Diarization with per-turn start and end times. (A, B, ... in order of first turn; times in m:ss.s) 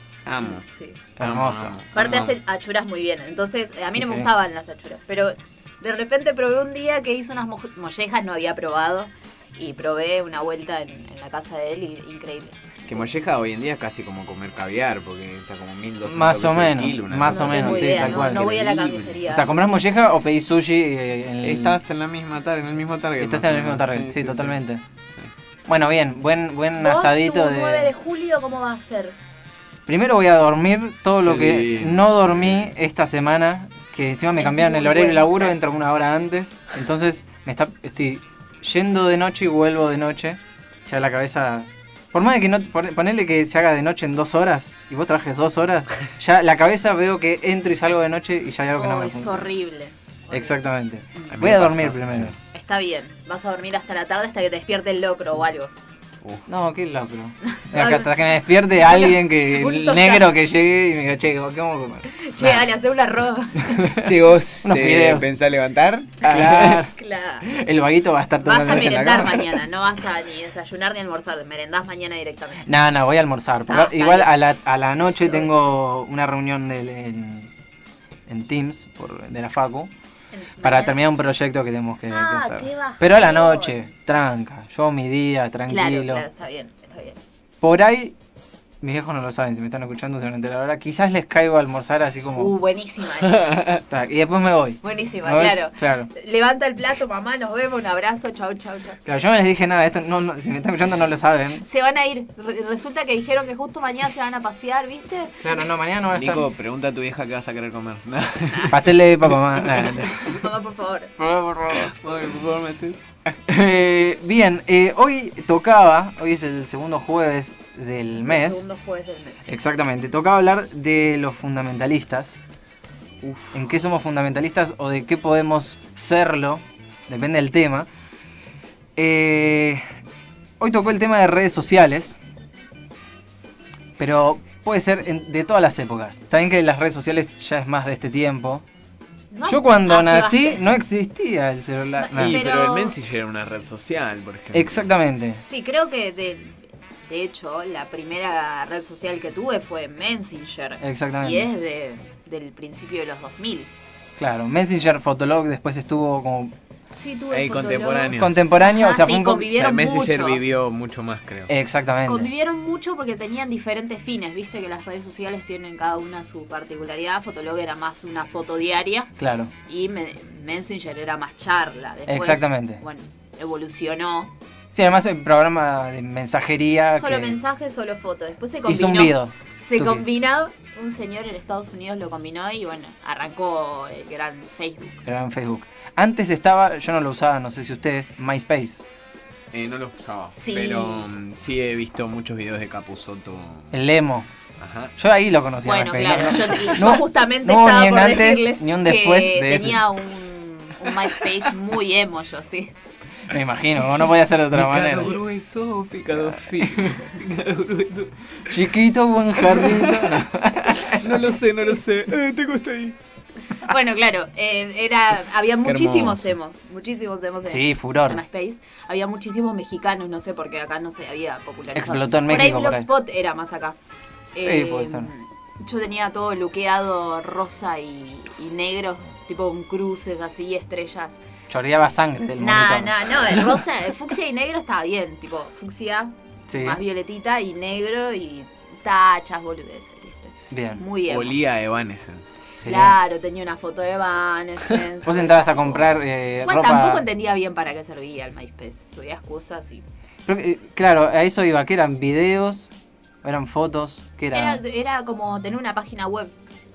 0:00.3-0:00.6 A
0:00.4-0:01.0 B
0:01.2-0:01.8 C
0:01.2-0:02.4 A
0:01.9-0:13.0 B
0:04.0-0:04.3 C
0:12.9-0:19.2 A
0:16.0-0:18.5 C
0:17.2-0:19.6 B
0:19.3-0:21.8 C
0:21.4-0:24.6 A
0:23.2-0:24.8 C
0:25.7-0:27.9 C
0:26.8-0:29.2 B
0:29.9-0:49.5 C
0:31.2-0:32.7 A
0:34.4-0:35.4 B
0:48.8-0:50.6 B
0:50.3-0:52.4 C
0:51.3-0:52.3 A
0:52.5-0:55.7 B
0:56.5-1:02.6 C
0:57.5-0:58.1 B
0:58.8-1:00.3 B
1:02.1-1:03.9 B
1:03.7-1:04.1 C
1:04.0-1:06.8 A
1:04.6-1:05.3 C
1:06.2-1:06.9 C
1:06.9-1:07.5 B
1:07.5-1:09.5 C
1:08.4-1:12.7 B
1:12.6-1:17.5 C
1:13.7-1:14.3 B
1:15.2-1:15.5 B
1:18.3-1:19.9 C
1:20.3-1:21.0 B
1:20.6-1:26.2 C
1:22.1-1:23.8 B
1:25.7-1:27.2 B
1:27.6-1:28.2 C
1:28.8-1:32.5 C
1:32.4-1:33.7 B
1:33.4-1:33.8 A
1:33.9-1:36.1 C
1:34.8-1:39.0 B
1:39.1-1:41.6 C
1:41.6-1:45.4 B
1:45.4-1:46.5 C
1:46.1-1:49.0 A
1:48.7-1:50.4 C
1:49.6-1:50.0 A
1:50.1-1:51.1 B
1:51.2-1:52.0 C
1:51.7-1:53.0 A
1:53.5-1:58.6 C
1:58.2-1:59.5 B
1:59.5-2:02.4 C
2:03.2-2:03.6 A
2:03.5-2:07.9 C
2:09.0-2:09.8 C
2:10.6-2:12.2 C
2:14.0-2:18.6 C
2:19.3-2:20.6 B
2:19.5-2:22.4 C
2:22.0-2:23.0 B
2:22.2-2:24.9 A
2:24.5-2:25.4 C
2:25.4-2:33.7 B
2:30.8-2:31.5 C
2:34.2-2:36.5 C
2:37.0-2:40.4 B
2:37.3-2:38.4 A
2:38.1-2:39.6 C
2:39.6-2:41.5 A
2:41.5-2:42.3 C
2:42.1-2:49.1 B
2:49.2-2:49.5 C
2:49.7-2:54.3 B
2:52.1-2:52.8 C
2:54.8-2:57.4 C
2:56.9-3:05.0 B
2:58.7-3:00.1 C
3:05.0-3:08.8 C
3:09.5-3:13.7 A
3:10.3-3:11.1 B
3:13.7-3:14.3 C
3:14.6-3:14.9 A
3:15.0-3:19.9 C
3:15.6-3:22.7 B
3:23.3-3:25.2 C
3:24.5-3:28.5 A
3:26.7-3:27.0 C
3:28.5-3:31.2 C
3:29.5-3:30.2 A
3:30.8-3:33.0 A
3:33.6-3:43.8 B
3:35.6-3:36.4 A
3:37.5-3:38.2 C
3:41.8-3:42.9 C
3:44.4-3:51.2 B
3:44.4-3:45.1 C
3:51.5-3:53.4 C
3:52.4-4:01.4 B
3:56.5-3:56.8 C
4:00.5-4:00.8 C
4:01.1-4:02.4 A
4:02.6-4:03.0 C
4:02.6-4:05.9 B
4:05.1-4:07.0 C
4:06.4-4:09.8 B
4:10.3-4:12.7 C
4:13.2-4:14.6 C
4:14.3-4:16.3 B